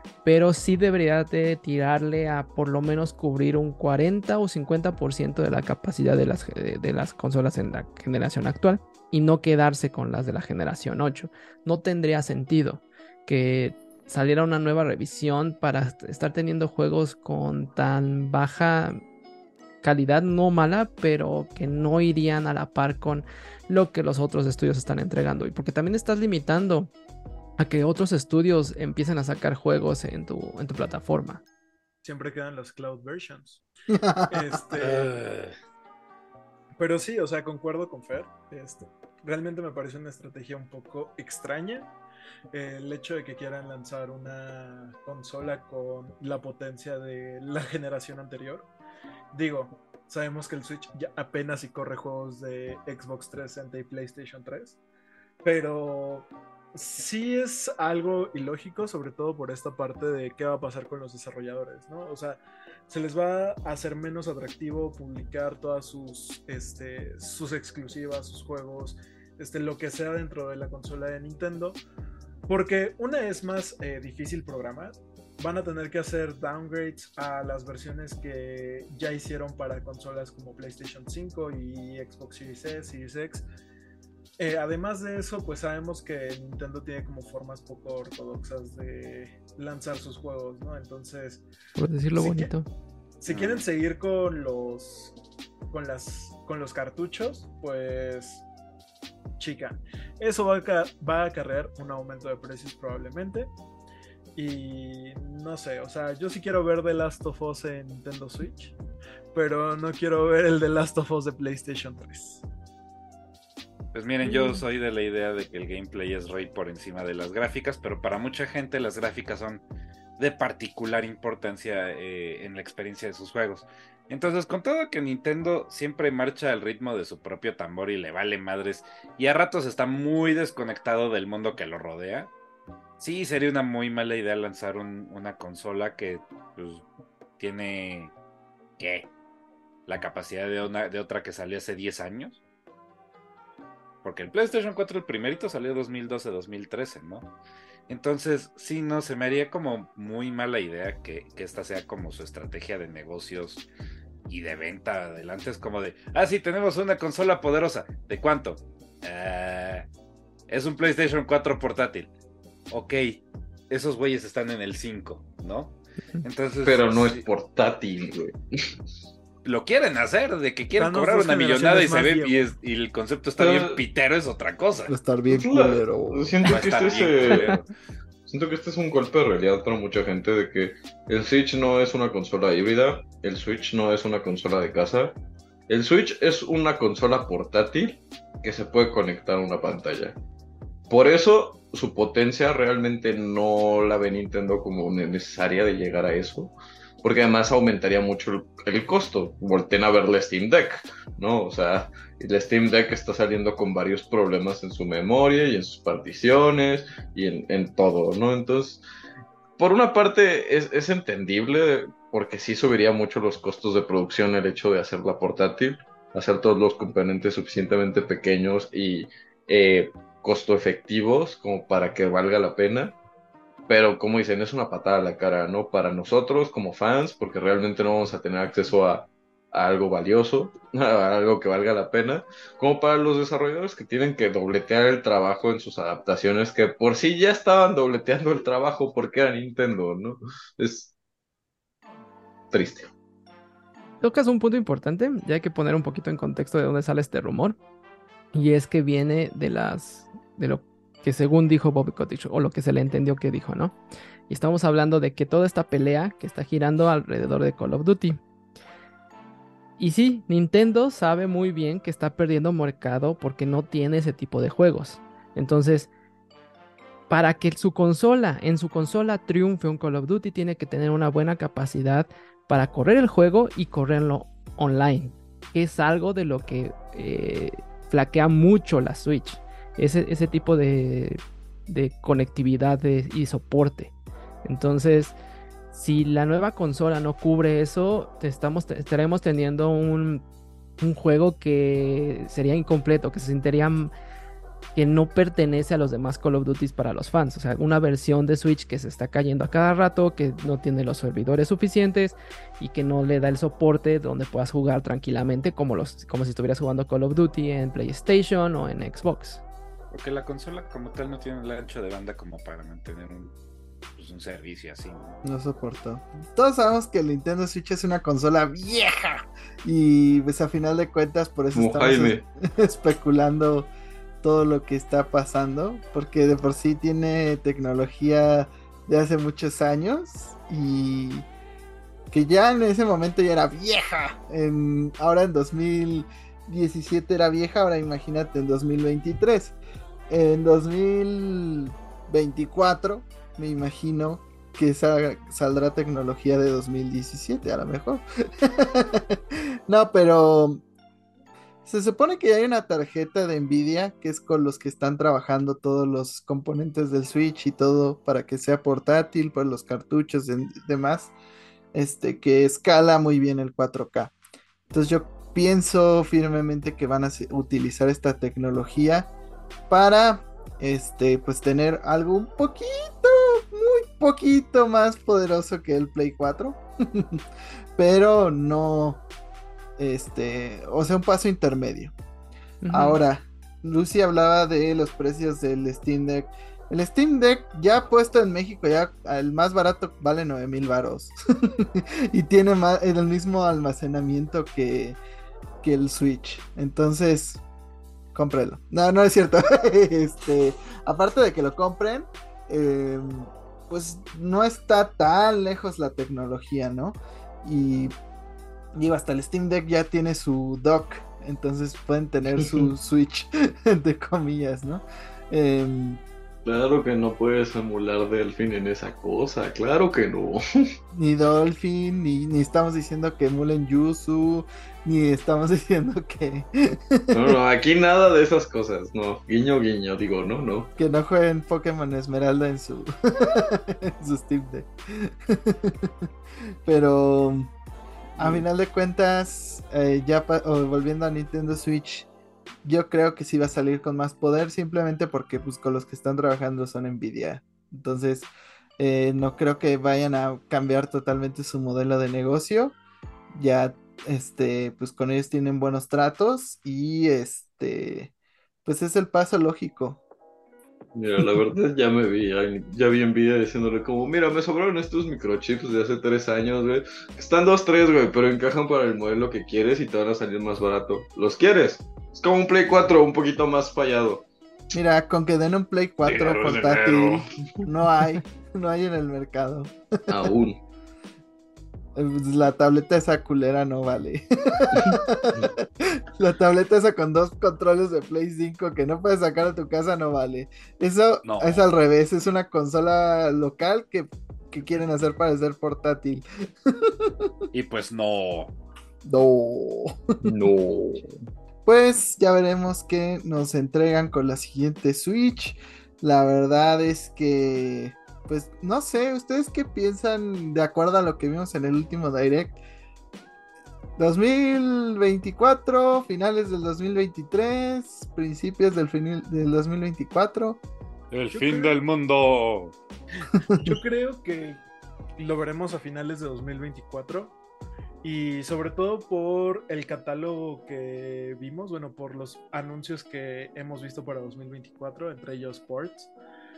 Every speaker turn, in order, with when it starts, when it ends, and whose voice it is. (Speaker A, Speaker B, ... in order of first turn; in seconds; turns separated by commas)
Speaker A: 0.2-19.0, Speaker A: 19.8-26.9, Speaker A: 27.6-31.4, Speaker B: 32.0-33.6, Speaker C: 33.9-34.6, Speaker B: 34.3-35.1, Speaker D: 34.8-35.5, Speaker B: 36.8-41.9, Speaker B: 42.5-48.7, Speaker B: 49.3-54.8, Speaker B: 55.4-71.8, Speaker B: 72.5-83.4, Speaker B: 84.4-91.5, Speaker A: 91.8-92.7, Speaker B: 92.2-92.5, Speaker B: 93.2-95.2, Speaker D: 93.3-93.7, Speaker B: 95.7-98.5, Speaker B: 99.4-103.5, Speaker B: 104.3-108.8, Speaker B: 109.3-112.5, Speaker D: 113.9-119.6, Speaker D: 120.2-132.3, Speaker D: 133.0-136.8, Speaker D: 137.4-138.1, Speaker D: 138.8-139.1, Speaker D: 139.9-142.4, Speaker D: 144.0-147.3, Speaker D: 147.9-153.7, Speaker D: 154.3-159.9, Speaker D: 160.5-162.1, Speaker D: 162.7-167.2, Speaker E: 166.6-168.6, Speaker D: 169.4-174.9, Speaker B: 170.8-172.5, Speaker E: 173.4-173.8, Speaker C: 174.9-176.4, Speaker E: 175.3-177.6, Speaker D: 176.4-177.7, Speaker A: 177.3-177.6, Speaker E: 178.3-185.2, Speaker E: 185.7-190.2, Speaker E: 190.9-208.8, Speaker E: 209.6-223.0, Speaker E: 223.7-240.9, Speaker E: 242.5-242.9, Speaker A: 244.0-247.6, Speaker A: 248.3-253.8, Speaker A: 254.3-258.2, Speaker A: 259.8-265.9, Speaker A: 267.1-285.1, Speaker A: 285.7-290.2, Speaker A: 290.8-293.9, Speaker A: 294.8-309.4, Speaker D: 309.9-313.3, Speaker D: 314.0-315.2, Speaker C: 315.2-323.7, Speaker E: 321.6-322.2, Speaker C: 324.2-331.3, Speaker C: 332.1-339.6, Speaker C: 340.1-350.6, Speaker C: 351.6-361.1, Speaker C: 361.7-364.1, Speaker C: 364.7-369.1, Speaker C: 369.7-377.2, Speaker C: 377.8-379.0, Speaker C: 379.8-381.9, Speaker A: 382.6-383.0, Speaker C: 382.7-395.0, Speaker C: 395.6-397.4, Speaker C: 398.1-407.9, Speaker C: 408.7-416.0, Speaker E: 416.4-420.4, Speaker C: 420.9-427.3, Speaker E: 427.1-430.7, Speaker C: 430.8-435.9, Speaker C: 436.6-437.5, Speaker E: 438.2-438.4, Speaker C: 438.2-442.1, Speaker C: 442.6-452.8, Speaker C: 453.3-458.1, Speaker C: 458.6-460.0, Speaker E: 460.9-474.2, Speaker C: 474.7-479.7, Speaker D: 476.1-476.9, Speaker E: 476.3-477.1, Speaker E: 480.1-480.6, Speaker C: 481.9-497.3, Speaker E: 484.8-485.4, Speaker D: 491.2-491.7, Speaker D: 497.5-498.5, Speaker C: 499.1-500.0, Speaker E: 500.2-501.1, Speaker C: 501.7-512.6, Speaker C: 514.0-520.6, Speaker D: 521.1-522.8, Speaker B: 521.3-521.7, Speaker C: 523.5-523.7, Speaker B: 523.5-524.6, Speaker B: 525.2-527.4, Speaker B: 528.0-536.1